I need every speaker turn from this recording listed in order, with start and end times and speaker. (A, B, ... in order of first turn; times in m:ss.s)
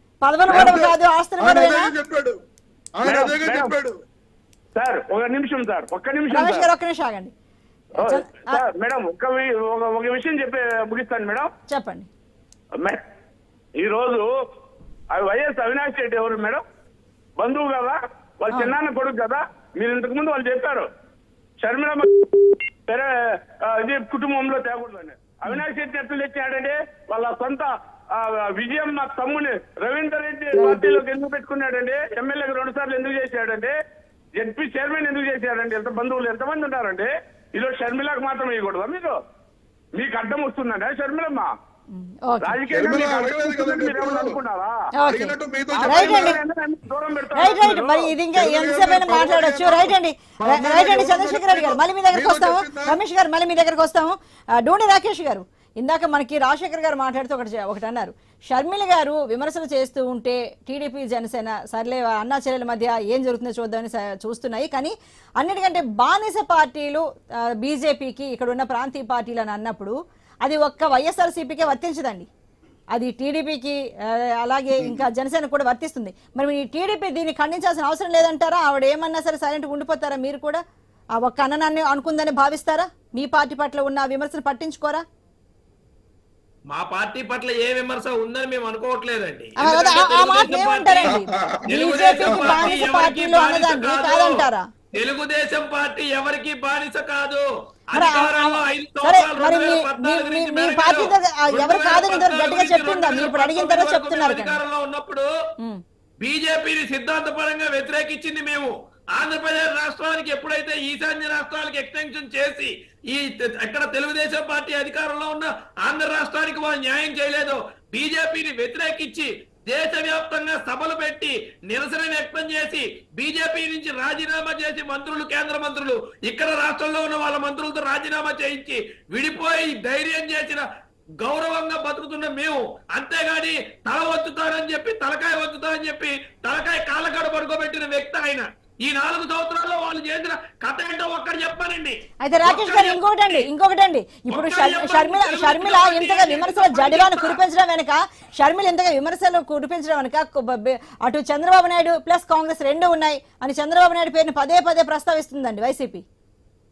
0:00.2-0:02.0 A
0:00.5-0:02.4 B
0:03.0-0:04.0 B
0:03.0-0:03.7 C
0:04.8-0:06.7 C
0:06.3-0:07.3 A
0:08.0-0:08.6 A
0:08.0-0:11.5 C
0:11.7-0:12.1 A
0:13.8-0:14.3 C
0:15.1-0:16.6 C
0:17.4-0:20.9 C
0:21.6-0:23.1 C
0:23.6-0:33.8 C
0:30.5-0:30.9 A
0:34.4-0:39.2 C
0:40.0-0:41.5 C
0:41.9-0:42.6 A
0:42.4-0:44.8 C
0:42.7-0:44.4 B
0:45.0-0:46.4 A
0:45.0-0:46.4 B
0:45.7-0:48.1 C
0:47.4-1:07.0 A
0:48.2-0:53.0 B
1:07.6-1:12.3 A
1:12.9-1:20.6 A
1:21.2-1:25.0 A
1:26.7-1:45.3 D
1:29.6-1:34.6 A
1:31.1-1:31.6 B
1:32.2-1:32.8 B
1:38.0-1:44.6 A
1:46.2-2:10.6 D
2:11.2-2:23.5 D
2:22.2-2:36.0 A
2:24.3-2:27.4 D